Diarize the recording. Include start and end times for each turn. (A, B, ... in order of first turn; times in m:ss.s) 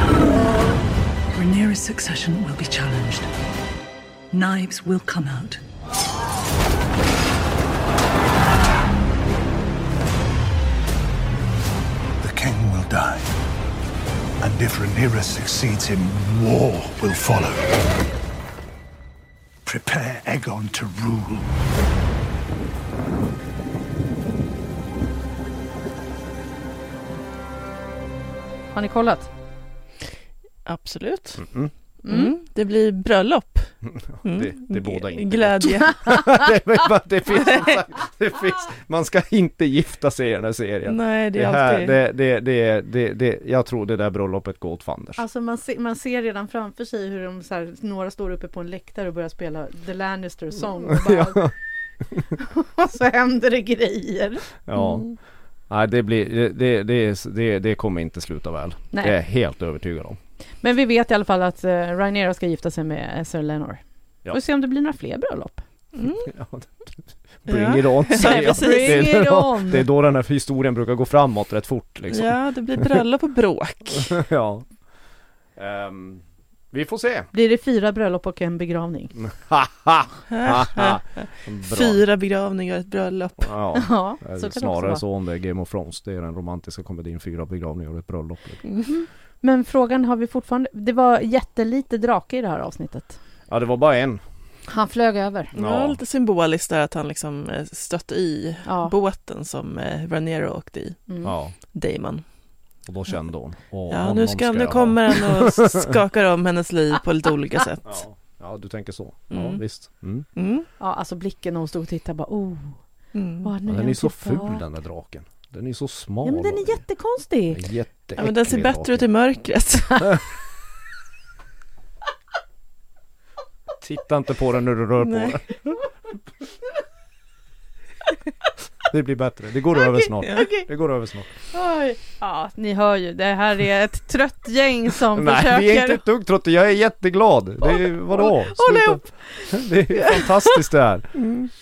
0:01.3-0:03.3 A
0:04.3-0:05.6 A
0:12.2-0:13.3 B
0:14.4-0:17.7 B
0:19.6-0:21.5 B
0:28.7-0:29.3 C
0:30.6-0:31.5 D
0:31.4-0:31.7 E
0:32.0-0:32.3 C
0:32.0-0:36.3 D
0:33.8-0:45.2 E
0:40.9-0:42.0 D
0:45.2-0:51.5 C
0:51.0-0:51.5 E
0:52.4-0:55.0 C
0:54.7-0:55.1 E
0:55.7-1:00.2 E
1:00.6-1:05.6 C
1:06.0-1:06.3 D
1:06.2-1:13.0 E
1:07.5-1:09.2 D
1:08.2-1:09.8 C
1:12.1-1:14.2 D
1:14.0-1:14.8 E
1:15.6-1:17.3 E
1:17.3-1:19.1 C
1:19.2-1:22.0 E
1:20.3-1:23.5 D
1:23.4-1:28.8 E
1:23.8-1:25.0 C
1:28.9-1:33.2 C
1:33.5-1:34.3 E
1:34.7-1:35.5 C
1:35.5-1:41.1 D
1:35.5-1:36.0 E
1:38.6-1:38.9 C
1:41.1-1:41.3 C
1:41.2-1:41.6 E
1:41.7-1:42.5 D
1:42.8-1:45.8 E
1:43.9-1:48.0 D
1:47.8-1:50.2 E
1:49.3-1:50.7 D
1:50.8-1:52.8 C
1:53.1-1:53.5 D
1:53.4-1:54.6 C
1:53.7-1:56.8 E
1:56.2-1:57.6 C
1:57.5-1:59.1 E
1:58.2-2:00.3 D
2:03.8-2:05.8 E
2:05.0-2:05.4 D
2:08.8-2:11.3 E
2:10.2-2:10.6 C
2:11.5-2:16.0 C
2:15.1-2:21.3 E
2:17.6-2:20.2 C